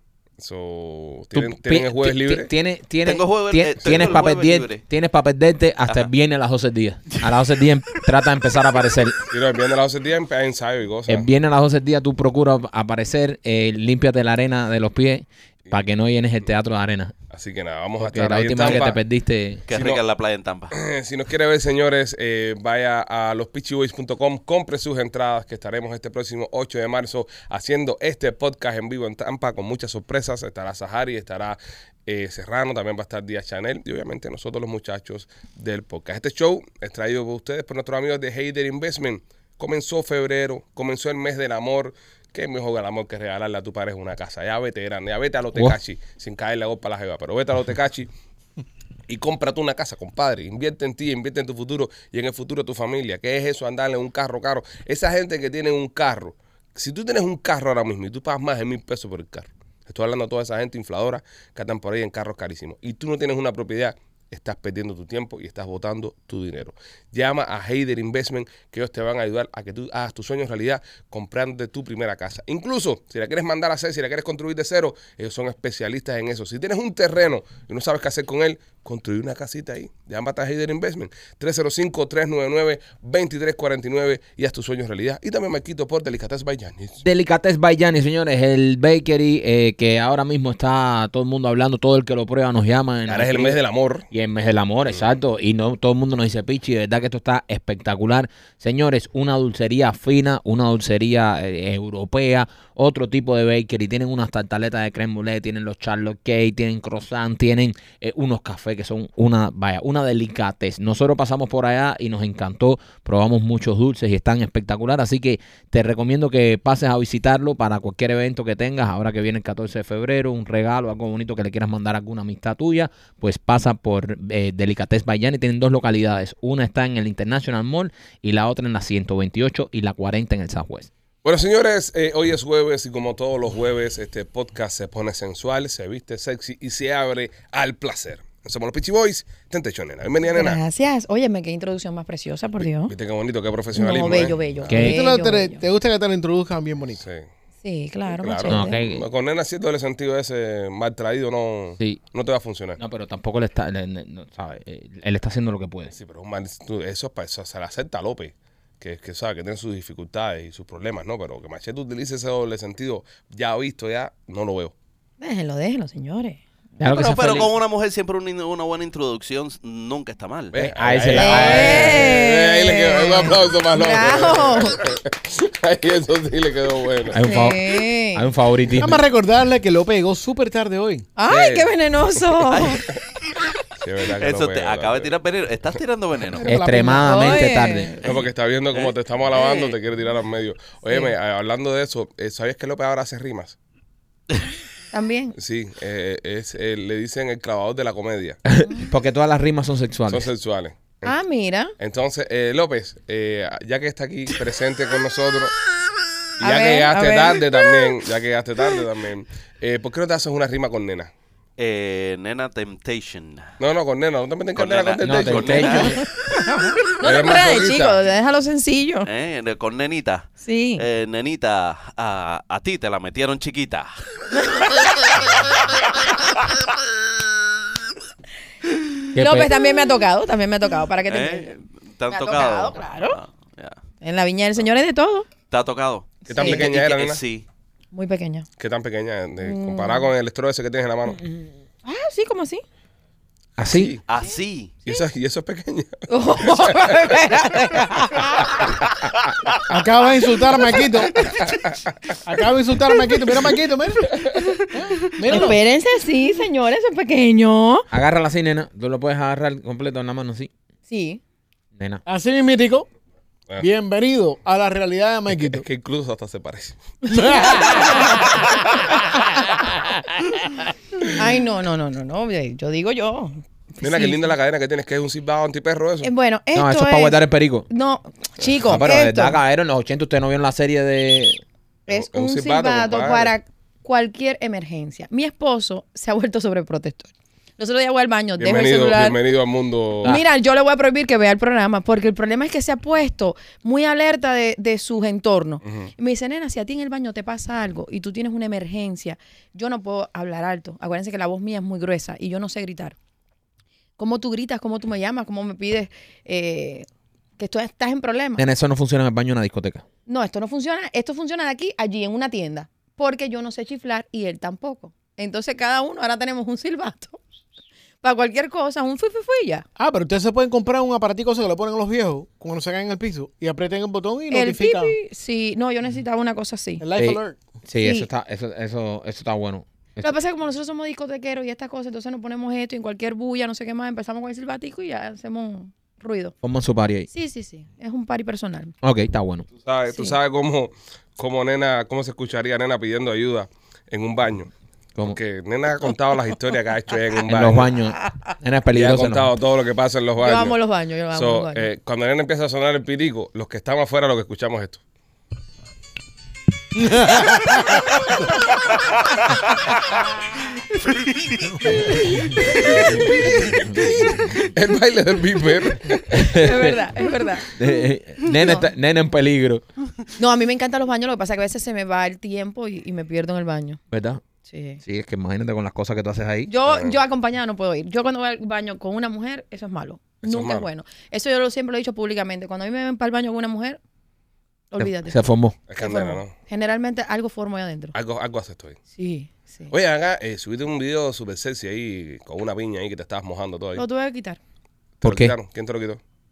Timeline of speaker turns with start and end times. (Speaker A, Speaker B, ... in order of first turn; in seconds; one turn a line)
Speaker A: 0.4-2.5
Speaker B: 1.3-9.2
Speaker C: 3.0-4.8
Speaker A: 9.3-11.3
Speaker B: 11.1-17.1
Speaker A: 17.3-19.0
Speaker B: 18.0-19.6
Speaker C: 19.7-20.7
Speaker A: 19.7-20.0
Speaker A: 20.7-48.1
Speaker A: 49.1-87.0
Speaker B: 87.0-93.6
Speaker A: 93.1-94.1
Speaker B: 94.1-130.9
Speaker A: 131.2-140.6
Speaker D: 140.3-142.9
Speaker A: 142.6-144.7
Speaker D: 143.7-145.6
Speaker B: 144.7-145.1
Speaker E: 144.7-147.0
Speaker A: 147.0-147.3
Speaker D: 147.6-148.8
Speaker A: 148.2-152.8
Speaker B: 148.5-149.0
Speaker B: 152.8-155.9
Speaker A: 155.9-164.7
Speaker D: 165.2-166.4
Speaker B: 166.8-167.5
Speaker C: 166.8-170.7
Speaker A: 170.5-177.2
Speaker B: 170.6-172.1
Speaker D: 171.1-174.8
Speaker B: 177.1-179.0
Speaker D: 177.2-178.3
Speaker E: 178.8-181.1
Speaker D: 181.2-182.9
Speaker A: 181.3-181.7
Speaker A: 182.4-183.0
Speaker C: 182.5-182.8
Speaker A: 183.7-185.2
Speaker C: 184.2-186.5
Speaker E: 186.3-187.4
Speaker B: 186.4-187.9
Speaker D: 186.9-188.1
Speaker A: 188.0-193.6
Speaker C: 188.0-188.9
Speaker D: 189.3-189.8
Speaker D: 190.9-191.1
Speaker D: 194.9-195.4
Speaker A: 195.4-198.4
Speaker B: 198.5-200.3
Speaker D: 198.6-198.9
Speaker A: 200.1-201.2
Speaker D: 201.0-201.7
Speaker A: 201.8-205.6
Speaker D: 206.4-208.0
Speaker A: 206.4-211.1
Speaker C: 211.6-213.5
Speaker A: 213.6-215.9
Speaker C: 214.6-216.0
Speaker B: 215.0-216.0
Speaker D: 216.6-219.1
Speaker A: 217.0-218.0
Speaker C: 219.1-224.1
Speaker D: 220.4-220.8
Speaker D: 224.3-224.9
Speaker B: 229.2-229.7
Speaker D: 229.2-231.5
Speaker C: 231.1-233.8
Speaker D: 232.1-233.2
Speaker D: 234.0-235.3
Speaker C: 235.5-237.5
Speaker A: 236.3-237.2
Speaker D: 236.3-236.7
Speaker D: 237.9-238.5
Speaker A: 238.6-241.2
Speaker D: 239.4-240.1
Speaker D: 241.8-242.6
Speaker B: 243.6-244.0
Speaker A: 243.7-244.0
Speaker C: 244.1-244.8
Speaker A: 244.8-247.2
Speaker D: 246.1-248.8
Speaker E: 249.7-251.3
Speaker A: 251.2-252.2
Speaker E: 252.2-255.6
Speaker D: 254.2-254.7
Speaker D: 255.2-257.9
Speaker B: 257.9-260.5
Speaker D: 260.9-261.2
Speaker B: 261.8-262.0
Speaker E: 262.1-262.9
Speaker E: 263.6-265.6
Speaker A: 265.4-266.8
Speaker D: 267.1-268.4
Speaker E: 267.1-268.1
Speaker D: 271.1-274.2
Speaker A: 273.8-276.1
Speaker D: 276.0-279.4
Speaker B: 276.5-277.7
Speaker B: 278.6-281.4
Speaker D: 281.9-289.2
Speaker A: 281.9-283.4
Speaker A: 288.4-290.2
Speaker D: 290.0-302.9
Speaker A: 295.6-295.9
Speaker D: 304.0-306.9
Speaker D: 307.4-308.4
Speaker B: 308.4-309.8
Speaker D: 310.1-317.2
Speaker D: 318.0-319.7
Speaker E: 319.8-324.9
Speaker D: 324.3-326.9
Speaker E: 326.8-327.4
Speaker B: 326.9-330.1
Speaker D: 327.8-328.1
Speaker D: 330.0-336.4
Speaker B: 336.4-337.1
Speaker D: 337.1-338.8
Speaker B: 338.8-339.5
Speaker A: 339.6-344.5
Speaker D: 339.9-340.2
Speaker A: 345.0-347.7
Speaker B: 347.3-349.3
Speaker A: 348.7-350.6
Speaker D: 350.2-351.7
Speaker A: 351.1-354.8
Speaker C: 360.9-361.5
Speaker B: 363.4-364.3
Speaker A: 364.1-366.5
Speaker B: 366.1-366.8
Speaker D: 366.2-367.7
Speaker B: 367.5-369.6
Speaker D: 368.2-368.7
Speaker D: 370.2-373.8
Speaker B: 373.9-374.2
Speaker D: 374.4-374.8
Speaker B: 374.8-376.5
Speaker D: 376.5-383.8
Speaker A: 376.6-377.0
Speaker A: 380.2-380.7
Speaker D: 384.7-385.2
Speaker B: 384.8-385.6
Speaker A: 385.7-386.3
Speaker D: 385.8-388.0
Speaker A: 387.9-388.8
Speaker D: 388.9-389.7
Speaker A: 389.7-393.9
Speaker D: 393.8-394.4
Speaker A: 395.0-396.0
Speaker B: 395.0-395.4